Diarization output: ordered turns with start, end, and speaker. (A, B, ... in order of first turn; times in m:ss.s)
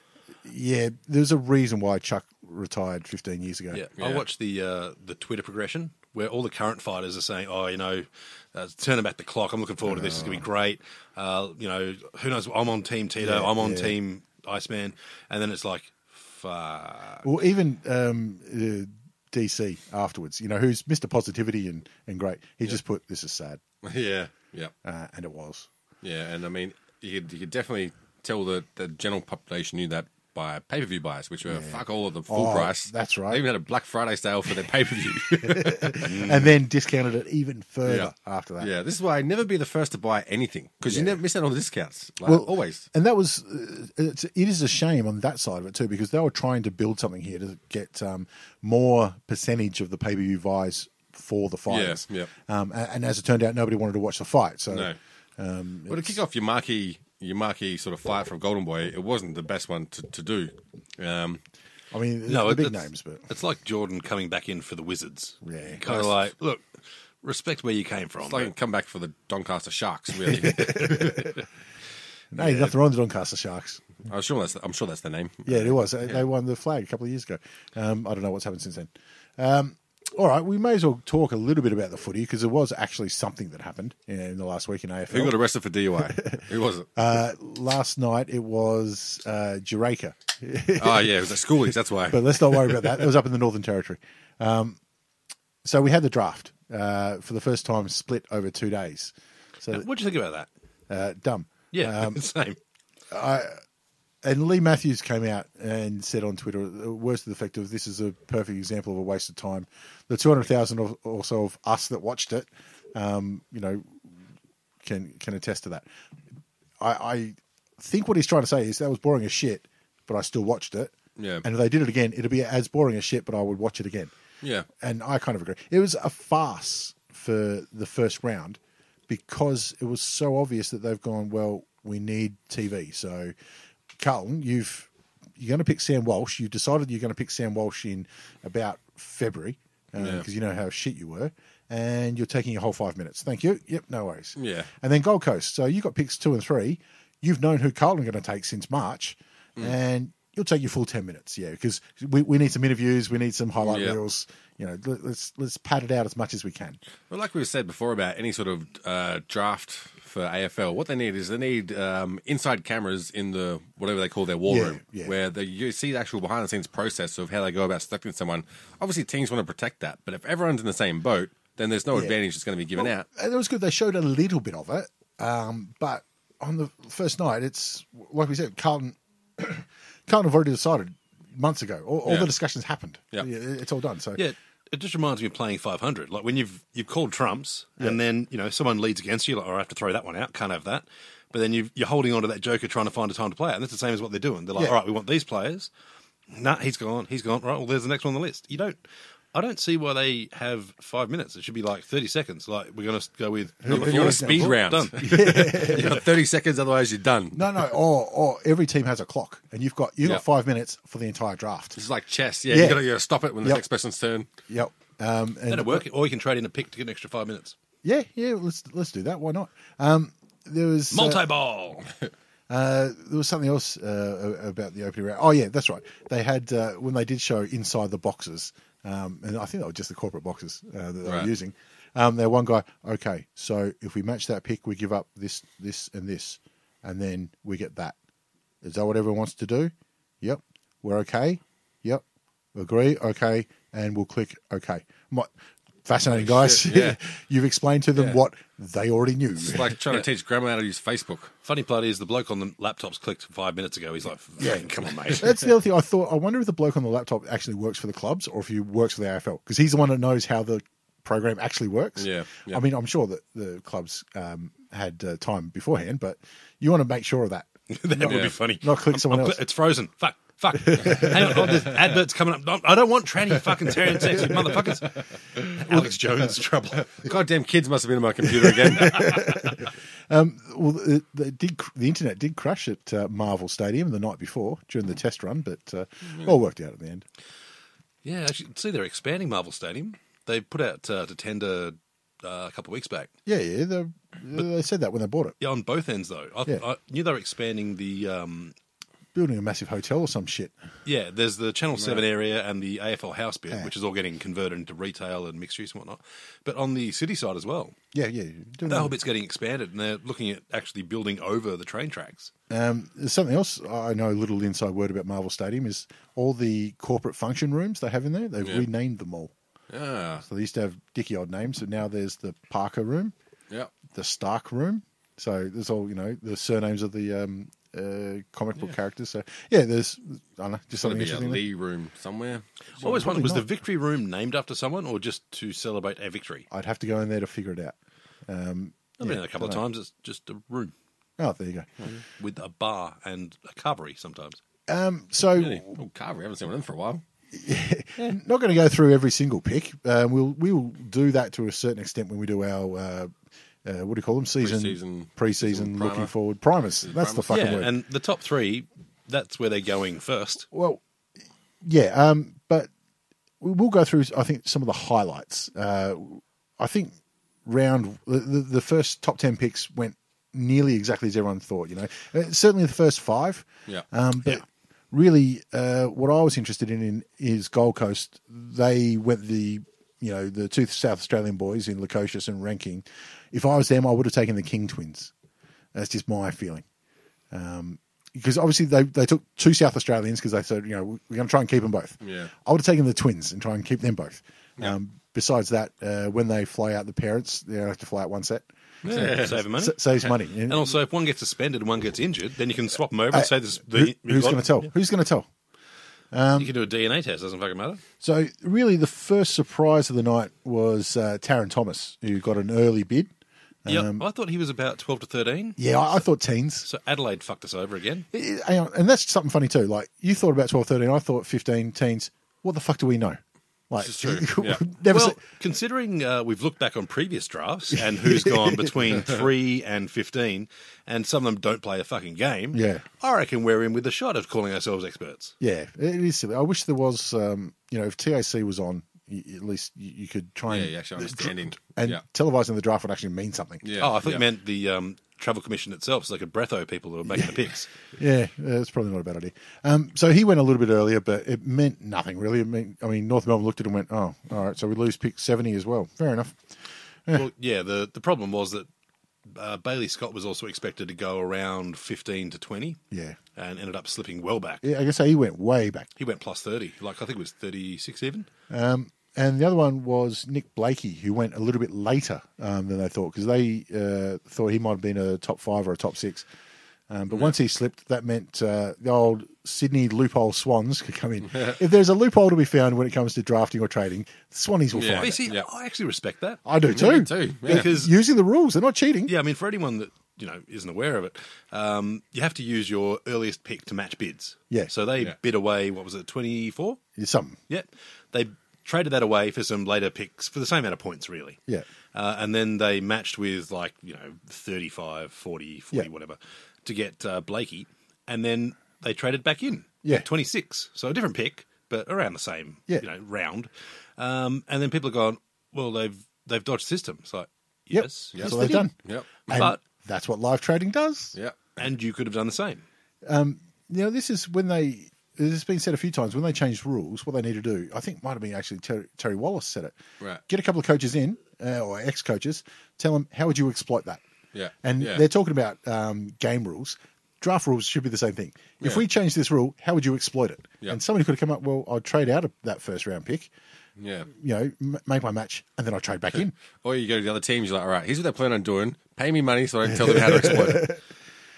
0:00.4-0:03.8 A
0:03.7-0:17.3 B
0:04.0-0:04.2 C
0:09.8-0:10.4 A
0:13.2-0:14.0 A
0:17.2-0:23.6 A
0:23.8-0:24.7 C
0:24.8-0:25.7 A
0:26.0-0:36.3 C
0:31.5-0:33.4 A
0:35.4-0:38.7 A
0:36.1-0:36.4 B
0:37.8-0:42.8 C
0:40.9-0:41.2 A
0:42.2-0:56.2 A
0:51.7-0:52.3 C
0:54.7-0:55.0 C
0:55.9-1:01.4 C
1:01.9-1:03.3 A
1:02.3-1:06.7 B
1:05.4-1:05.8 A
1:05.9-1:06.1 C
1:07.2-1:08.5 B
1:08.2-1:11.3 C
1:10.3-1:11.4 A
1:12.3-1:13.8 A
1:14.0-1:16.2 C
1:15.4-1:25.4 A
1:25.1-1:26.9 C
1:26.0-1:26.4 A
1:27.0-1:34.8 A
1:30.7-1:33.1 C
1:35.6-1:39.9 A
1:39.7-1:40.5 B
1:40.9-1:42.2 A
1:41.7-1:42.6 B
1:43.1-1:43.6 A
1:44.2-1:54.1 A
1:54.8-1:55.9 A
1:56.8-2:04.1 A
2:01.2-2:01.4 C
2:04.4-2:04.7 C
2:04.8-2:13.3 A
2:14.0-2:36.8 A
2:20.0-2:20.2 C
2:24.4-2:24.7 C
2:33.6-2:34.0 C
2:37.1-2:53.0 C
2:44.4-2:45.1 A
2:52.8-3:04.2 A
3:02.0-3:02.3 C
3:04.2-3:15.7 B
3:16.3-3:18.8 B
3:19.3-3:26.0 B
3:23.6-3:26.0 A
3:23.7-3:27.6 C
3:27.3-3:31.8 A
3:31.8-3:34.3 C
3:32.5-3:32.8 A
3:34.5-3:35.8 A
3:35.5-3:37.6 B
3:37.8-3:41.3 A
3:40.9-3:41.9 B
3:42.5-3:58.0 A
3:58.6-4:02.0 A
4:02.5-4:05.3 A
4:05.8-4:09.8 A
4:06.1-4:07.0 C
4:09.4-4:11.3 C
4:11.4-4:15.4 B
4:15.1-4:29.4 A
4:22.0-4:22.6 C
4:27.7-4:36.9 B
4:28.0-4:28.3 C
4:30.5-4:31.6 A
4:33.9-4:34.6 A
4:35.6-4:36.3 A
4:37.0-4:39.5 C
4:38.3-4:47.0 A
4:48.0-4:53.1 B
4:53.2-4:55.4 A
4:55.4-4:58.5 B
4:59.1-5:00.5 A
5:00.8-5:07.8 B
5:07.9-5:09.0 A
5:08.6-5:12.3 B
5:12.5-5:19.3 A
5:19.7-5:20.2 C
5:20.2-5:23.1 A
5:23.9-5:31.4 A
5:30.8-5:32.4 C
5:32.8-5:36.4 B
5:32.8-5:33.5 A
5:36.5-5:37.7 A
5:38.3-5:39.6 A
5:39.0-5:40.7 B
5:41.2-5:41.8 A
5:42.2-5:44.4 B
5:44.7-5:45.8 A
5:45.4-5:47.0 C
5:47.3-5:53.1 A
5:53.6-5:57.7 A
5:54.4-5:56.1 C
5:56.8-5:57.6 C
5:57.3-6:00.4 B
6:00.5-6:00.8 A
6:01.6-6:02.7 A
6:03.4-6:25.1 A
6:25.7-6:26.6 A
6:27.3-6:40.7 A
6:32.0-6:32.3 C
6:38.8-6:44.7 B
6:38.8-6:39.4 C
6:43.1-6:45.3 A
6:46.1-6:46.5 A
6:46.4-6:47.8 B
6:48.0-6:53.1 A
6:53.6-6:54.0 A
6:53.7-6:56.0 B
6:55.6-6:56.7 A
6:56.6-6:58.0 B
6:58.1-7:03.2 A
7:03.7-7:05.2 A
7:03.8-7:04.6 C
7:04.9-7:15.3 B
7:07.7-7:09.0 A
7:12.5-7:12.8 A
7:15.4-7:23.7 A
7:20.5-7:22.0 C
7:23.6-7:24.2 C
7:23.8-7:27.7 B
7:28.0-7:36.5 A
7:37.1-7:38.7 B
7:39.3-7:42.8 B
7:42.9-7:43.2 A
7:43.4-7:44.6 B
7:44.6-7:45.9 A
7:46.0-7:48.3 B
7:48.5-7:56.3 A
7:56.9-8:05.2 A
8:04.7-8:05.4 C
8:04.9-8:06.8 B
8:06.4-8:09.1 A
8:06.6-8:07.7 C
8:07.4-8:07.9 B
8:09.1-8:16.8 B
8:17.0-8:17.4 A
8:17.5-8:21.4 B
8:21.9-8:38.7 B
8:37.7-8:38.7 A
8:38.1-8:39.3 C
8:39.3-8:41.1 A
8:39.3-8:39.6 B
8:41.1-8:41.5 C
8:41.6-8:42.6 B
8:43.0-8:49.8 A
8:50.3-8:54.0 A
8:54.3-8:55.0 C
8:54.6-9:03.3 A
9:03.8-9:04.1 C
9:04.1-9:06.3 A
9:06.6-9:10.7 C
9:09.7-9:10.8 A